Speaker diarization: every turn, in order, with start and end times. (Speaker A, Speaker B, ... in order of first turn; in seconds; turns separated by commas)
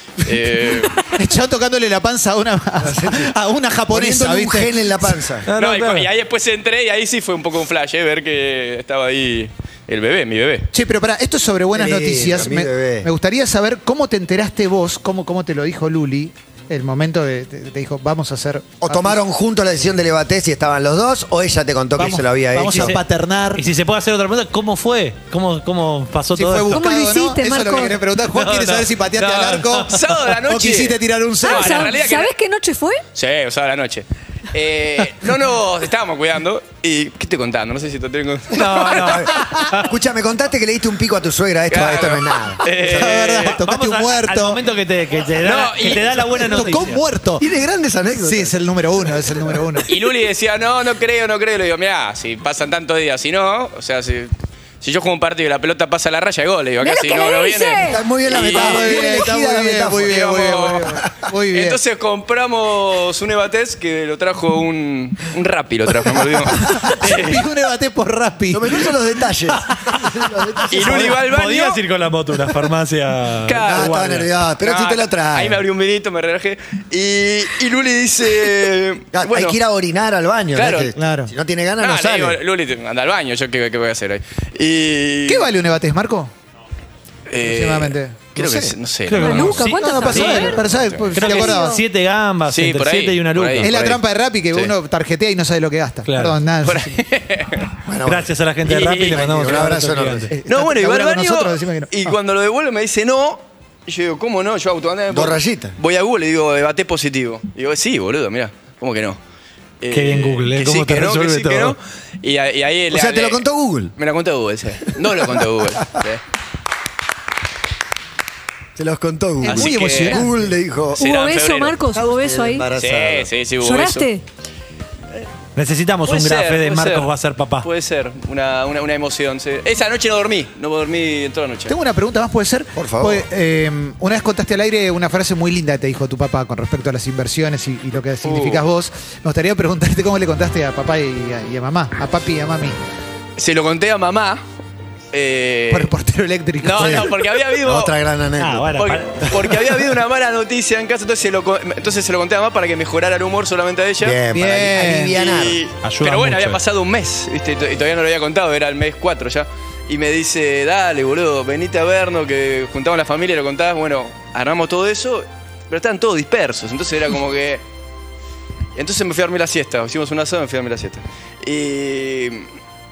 Speaker A: 0.2-1.1, Speaker B: 1.1-5.2, Speaker C: 2.8-3.3, Speaker C: 3.9-5.5, Speaker D: 5.5-6.1, Speaker A: 5.6-10.7, Speaker B: 10.7-19.2, Speaker C: 11.7-13.1, Speaker C: 18.8-23.0, Speaker B: 22.0-23.6, Speaker D: 22.7-23.0, Speaker D: 23.6-26.8, Speaker B: 26.3-31.9, Speaker E: 26.7-28.0, Speaker D: 28.2-30.0, Speaker A: 29.9-32.3, Speaker E: 31.4-33.0, Speaker A: 33.1-39.2, Speaker D: 38.5-39.9, Speaker C: 38.7-43.1, Speaker A: 41.7-43.6, Speaker B: 42.8-44.6, Speaker D: 43.5-47.0, Speaker A: 45.4-46.2, Speaker B: 45.8-47.5, Speaker C: 47.4-48.6, Speaker B: 48.1-49.9, Speaker A: 49.9-59.1, Speaker E: 56.8-58.0, Speaker C: 57.8-60.5, Speaker B: 58.4-61.8, Speaker A: 60.1-61.0, Speaker A: 61.5-67.4, Speaker B: 66.7-68.9, Speaker C: 68.5-71.2, Speaker D: 69.7-70.1, Speaker A: 70.7-71.8, Speaker D: 70.8-74.3, Speaker A: 73.5-74.0, Speaker C: 73.7-75.6, Speaker A: 74.6-79.6, Speaker C: 79.1-82.4, Speaker A: 80.5-80.9, Speaker B: 81.0-81.3, Speaker A: 81.8-85.5, Speaker B: 85.3-86.3, Speaker A: 87.3-89.7, Speaker B: 87.4-88.2, Speaker C: 88.4-88.8, Speaker D: 89.1-90.5, Speaker E: 89.2-90.6, Speaker B: 89.4-91.8, Speaker A: 90.2-91.1, Speaker D: 91.1-93.8, Speaker E: 91.2-91.8, Speaker A: 92.5-94.0, Speaker B: 93.6-96.9, Speaker D: 96.1-96.4, Speaker A: 96.7-97.7, Speaker C: 97.9-98.3, Speaker D: 98.1-100.3, Speaker A: 98.7-99.3, Speaker C: 99.0-100.3, Speaker B: 100.3-102.2, Speaker A: 100.5-109.2, Speaker C: 105.1-105.8, Speaker A: 109.8-113.4, Speaker D: 109.9-111.8, Speaker C: 112.9-113.9, Speaker A: 114.0-116.2, Speaker C: 118.8-121.0, Speaker B: 119.4-120.3, Speaker A: 119.5-120.2, Speaker A: 121.0-121.8, Speaker E: 121.0-122.7, Speaker C: 122.0-123.3, Speaker A: 122.8-124.1, Speaker E: 123.6-124.2, Speaker D: 125.6-127.7, Speaker A: 126.1-127.1, Speaker A: 127.6-131.8, Speaker B: 131.7-142.8, Speaker C: 132.8-133.3, Speaker A: 138.2-138.6, Speaker A: 143.4-144.4, Speaker A: 145.1-145.9, Speaker B: 145.7-147.1, Speaker A: 146.6-147.9, Speaker C: 146.8-147.1, Speaker C: 147.6-148.8, Speaker D: 148.4-149.3, Speaker A: 148.8-154.2, Speaker C: 154.0-155.6, Speaker B: 154.3-155.1, Speaker A: 155.1-167.6, Speaker D: 155.8-156.6, Speaker A: 168.8-172.5